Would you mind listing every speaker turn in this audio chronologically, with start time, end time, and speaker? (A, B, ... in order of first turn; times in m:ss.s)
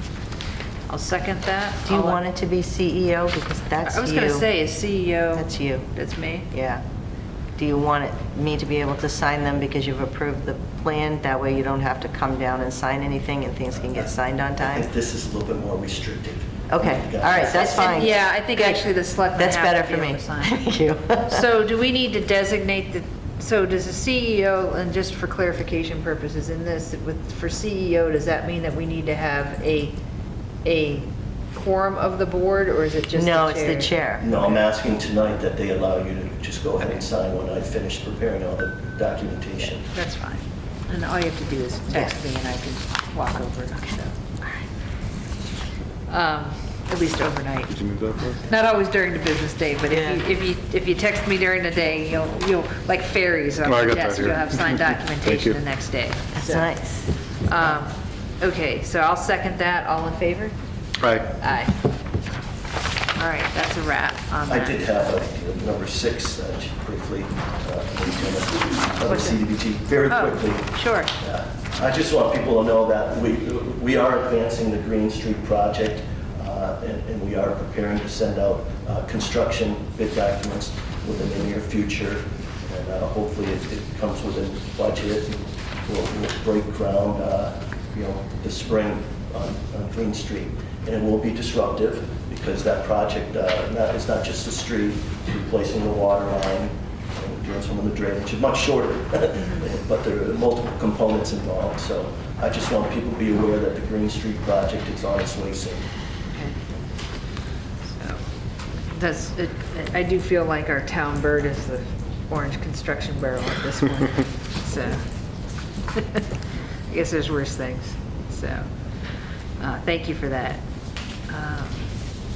0:00.9-0:02.2 A
0:01.9-0:04.5 B
0:03.8-0:06.5 A
0:05.3-0:05.9 B
0:06.5-0:06.8 B
0:07.6-0:14.8 B
0:13.9-0:18.2 C
0:16.7-0:21.4 B
0:17.5-0:20.6 A
0:21.3-0:30.0 A
0:30.6-0:34.4 A
0:33.1-0:34.2 B
0:34.2-0:39.8 C
0:39.9-0:44.2 A
0:46.1-0:47.7 A
0:47.7-0:48.4 D
0:48.4-0:56.7 A
0:49.9-0:50.2 B
0:53.6-0:55.6 D
0:56.3-0:57.1 B
0:57.4-1:00.5 A
1:01.0-1:01.3 D
1:01.4-1:01.7 A
1:03.2-1:04.8 A
1:04.5-1:45.9 C
1:09.1-1:09.4 A
1:09.9-1:11.1 A
1:47.8-1:48.2 A
1:48.9-1:55.0 A
1:55.9-1:56.2 A
1:56.9-1:58.7 A
1:59.6-2:00.6 A
2:01.3-2:01.9 A